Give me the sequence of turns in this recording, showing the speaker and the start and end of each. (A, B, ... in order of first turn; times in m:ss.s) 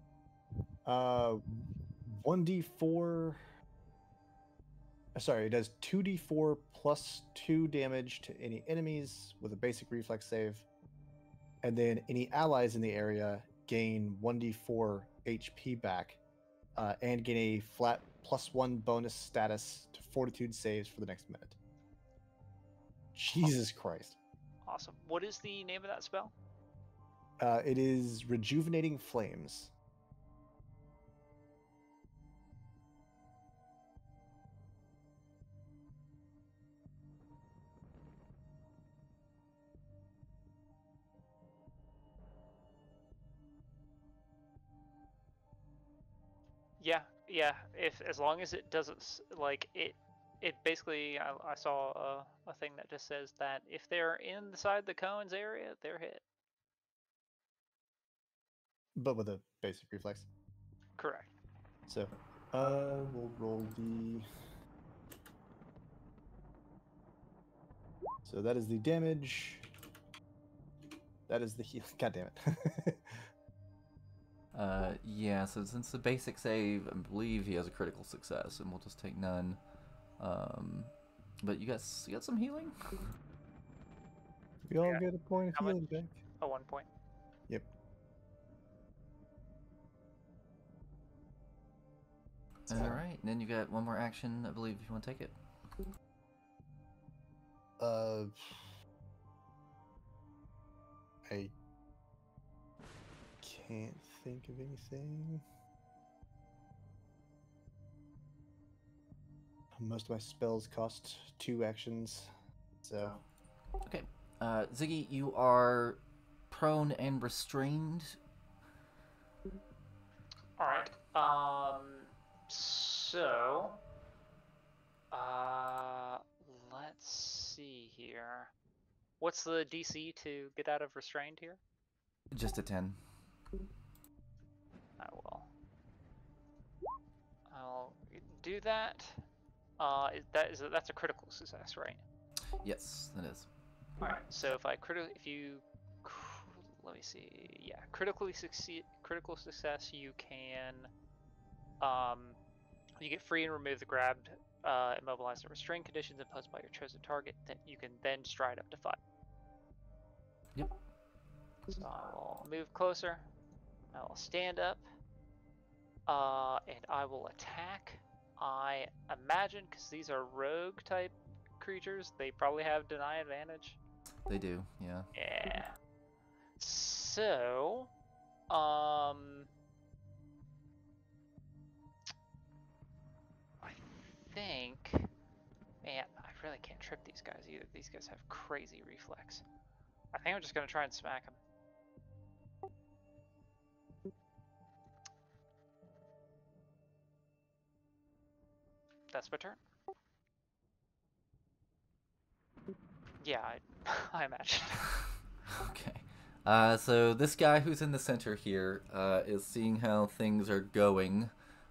0:00.8-0:03.4 A
0:05.2-0:10.7 A
0:11.6-0:16.2 A
0:16.8-0:21.6 A
0:23.2-0:24.2 A
0:24.7-0:26.3 B
0:27.4-0:29.7 A
0:46.8-0:56.2 B
0:59.0-1:00.3 A
1:01.0-1:01.3 B
1:01.9-1:04.3 A
1:08.2-1:09.6 A
1:11.3-1:13.2 A
1:14.5-1:19.6 C
1:20.2-1:23.0 C
1:24.7-1:26.2 A
1:24.8-1:25.8 B
1:26.4-1:26.9 B
1:32.7-1:35.4 C
1:32.7-1:33.0 A
1:37.8-1:38.7 A
1:41.3-1:41.5 A
1:43.4-1:45.4 A
1:49.8-1:52.3 A
1:52.8-1:53.2 A
1:53.8-1:58.2 C
2:00.6-2:03.8 B
2:05.1-2:08.5 B
2:09.2-2:11.6 B
2:12.3-2:13.0 C
2:15.0-2:15.5 B
2:17.5-2:19.2 B
2:19.8-2:22.0 B
2:22.6-2:23.5 C
2:24.0-2:30.9 B
2:31.8-2:32.4 B
2:33.0-2:39.0 B
2:41.7-2:43.3 B
2:43.9-2:44.8 B
2:46.1-2:53.8 B
2:54.3-2:55.1 C
2:55.2-2:55.7 B
2:56.6-2:57.9 B
2:58.5-2:59.5 B
3:03.6-3:05.1 B
3:05.8-3:09.4 B
3:10.1-3:11.4 B
3:19.1-3:19.6 B
3:23.2-3:25.2 B
3:25.5-3:31.3 C